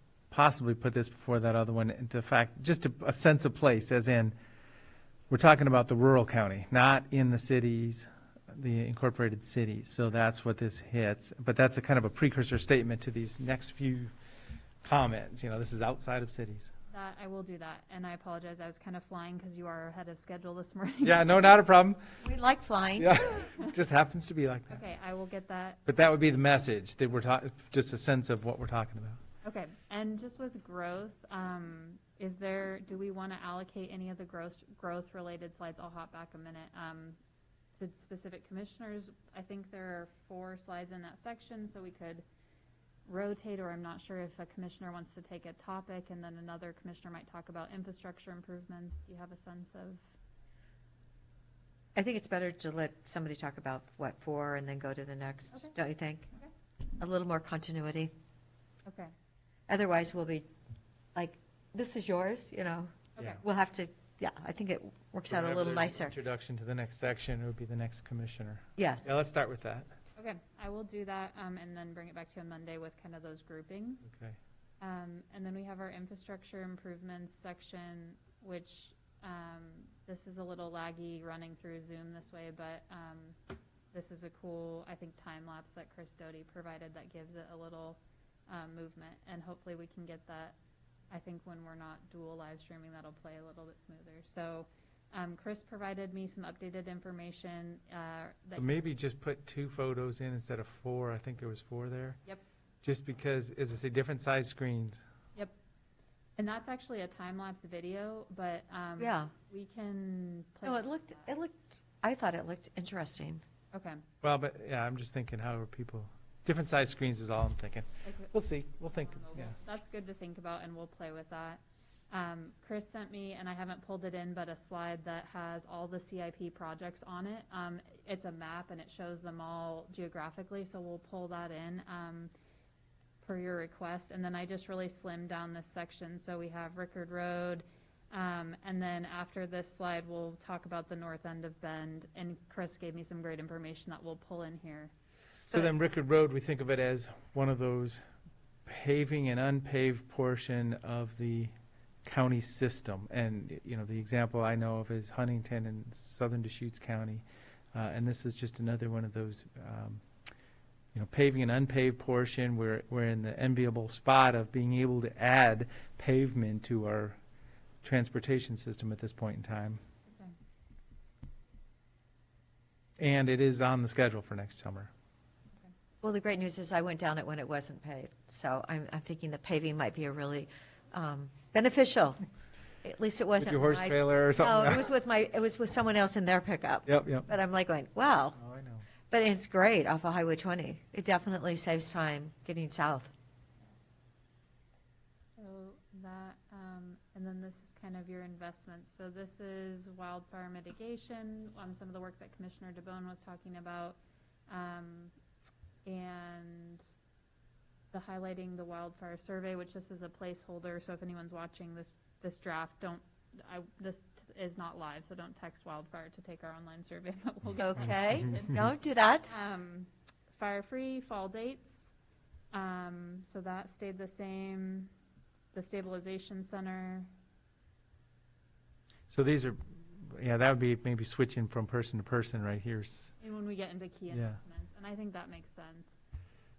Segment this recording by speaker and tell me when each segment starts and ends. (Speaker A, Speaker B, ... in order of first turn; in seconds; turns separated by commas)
Speaker A: 0.3-4.3, Speaker A: 5.3-14.1, Speaker A: 14.8-16.7, Speaker B: 16.9-21.3, Speaker A: 21.0-22.0, Speaker C: 22.2-23.2, Speaker A: 23.0-24.8, Speaker B: 24.7-25.9, Speaker A: 25.9-29.2, Speaker B: 29.4-37.2, Speaker B: 37.7-42.2, Speaker B: 43.0-50.0, Speaker C: 51.9-56.3, Speaker C: 57.0-58.1, Speaker B: 58.9-59.1, Speaker C: 59.7-60.5, Speaker C: 61.1-66.1, Speaker B: 63.2-63.4, Speaker A: 65.2-69.9, Speaker C: 68.8-69.1, Speaker B: 70.2-74.1, Speaker A: 74.0-74.4, Speaker B: 74.8-83.3, Speaker B: 83.9-90.5, Speaker B: 91.1-98.7, Speaker A: 98.5-102.2, Speaker A: 102.8-105.0, Speaker B: 106.4-111.3, Speaker C: 109.0-109.3, Speaker C: 110.6-113.4, Speaker B: 113.7-114.0, Speaker A: 114.2-119.5, Speaker B: 118.0-118.3, Speaker B: 118.9-132.3, Speaker B: 133.2-144.9, Speaker A: 145.5-148.0, Speaker A: 148.7-160.0, Speaker A: 160.9-167.2, Speaker A: 167.8-169.8, Speaker B: 170.1-170.3, Speaker A: 173.0-174.9, Speaker C: 176.0-182.2, Speaker C: 182.8-188.4, Speaker A: 183.4-184.9, Speaker A: 186.9-187.3, Speaker A: 188.3-188.9, Speaker C: 189.1-193.1, Speaker B: 195.4-205.1, Speaker B: 205.8-206.8, Speaker B: 207.9-218.7, Speaker C: 217.6-219.3, Speaker B: 219.3-221.9, Speaker B: 222.5-224.9, Speaker B: 225.5-227.1, Speaker A: 229.1-233.1, Speaker B: 233.2-236.0, Speaker A: 234.1-234.4